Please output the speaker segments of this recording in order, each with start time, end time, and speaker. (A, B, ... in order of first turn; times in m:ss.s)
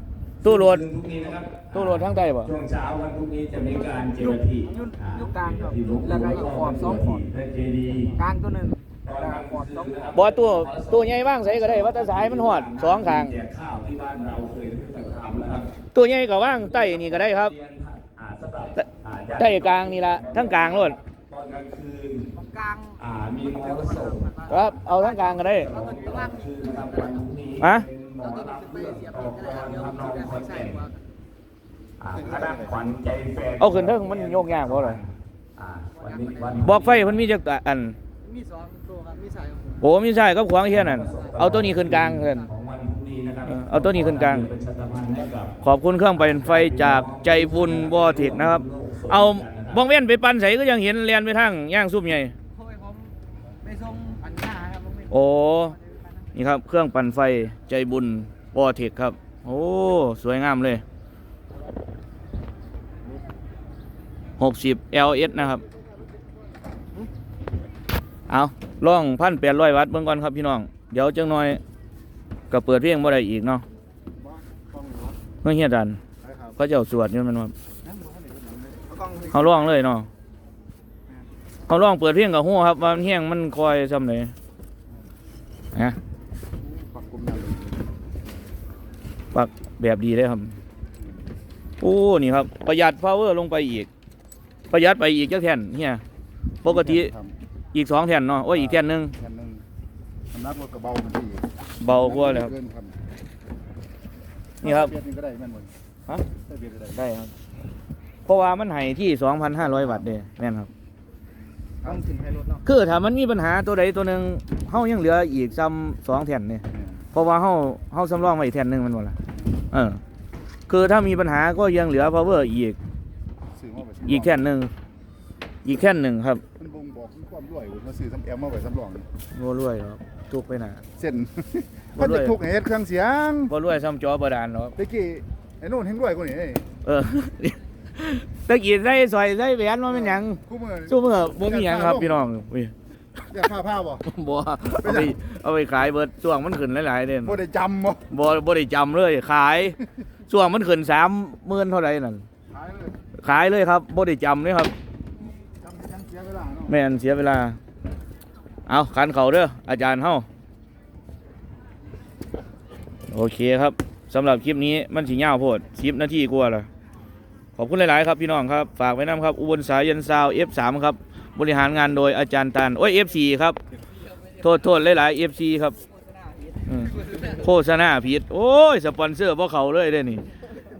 0:00.4-0:00.8 A
0:00.4-0:08.2 B
0:01.7-0:02.5 A
0:04.2-0:07.2 C
0:08.2-0:10.0 C
0:09.0-0:15.8 B
0:10.1-0:13.4 A
0:15.9-0:17.5 A
0:16.4-0:22.3 B
0:19.4-0:21.0 A
0:22.4-0:23.0 C
0:23.0-0:24.3 B
0:23.5-0:27.2 C
0:24.5-0:25.7 A
0:25.5-0:30.9 B
0:27.6-0:27.9 A
0:28.2-0:31.0 C
0:32.0-0:37.2 B
0:32.1-0:32.7 D
0:33.6-0:35.0 A
0:36.0-0:36.6 C
0:36.6-0:38.0 A
0:38.2-0:39.8 C
0:39.8-0:42.5 A
0:40.6-0:45.6 B
0:41.2-0:41.5 C
0:43.4-0:44.5 A
0:45.6-0:52.3 A
0:46.1-0:49.8 B
0:52.6-0:55.1 C
0:55.1-0:55.8 A
0:56.3-1:00.8 A
1:04.4-1:05.6 A
1:08.3-1:11.6 A
1:12.5-1:13.6 A
1:14.2-1:15.2 D
1:15.4-1:16.0 A
1:16.2-1:16.6 D
1:16.6-1:17.5 A
1:17.8-1:19.5 D
1:19.0-1:19.3 C
1:19.3-1:20.1 A
1:21.7-1:24.3 A
1:26.6-1:27.9 D
1:29.3-1:30.5 A
1:31.8-1:33.9 A
1:34.7-1:36.0 A
1:36.6-1:37.1 A
1:36.6-1:37.3 D
1:37.7-1:39.1 A
1:38.5-1:39.6 D
1:40.3-1:43.0 D
1:41.8-1:42.5 A
1:44.6-1:45.7 D
1:44.6-1:44.9 A
1:46.4-1:47.0 D
1:46.9-1:47.3 A
1:48.2-1:50.7 A
1:49.6-1:50.1 D
1:51.8-1:52.1 D
1:51.8-1:52.6 C
1:52.6-1:59.2 A
1:56.7-1:57.0 D
1:59.7-2:00.0 A
2:00.7-2:02.8 A
2:03.6-2:04.4 D
2:04.0-2:04.7 A
2:05.6-2:06.4 A
2:06.6-2:09.0 D
2:09.3-2:10.8 A
2:11.0-2:13.5 D
2:12.0-2:12.4 A
2:13.5-2:14.8 A
2:14.8-2:16.6 D
2:16.8-2:22.7 A
2:19.9-2:22.2 D
2:23.3-2:24.1 D
2:24.0-2:27.4 A
2:24.8-2:25.2 D
2:27.2-2:28.1 D
2:28.1-2:32.2 A
2:32.5-2:33.0 D
2:33.2-2:34.7 A
2:35.6-2:36.7 D
2:36.7-2:37.6 A
2:38.7-2:40.2 A
2:43.1-2:46.7 A
2:47.6-2:53.6 A
2:54.4-2:55.8 A
2:56.1-2:56.5 C
2:56.7-3:00.2 A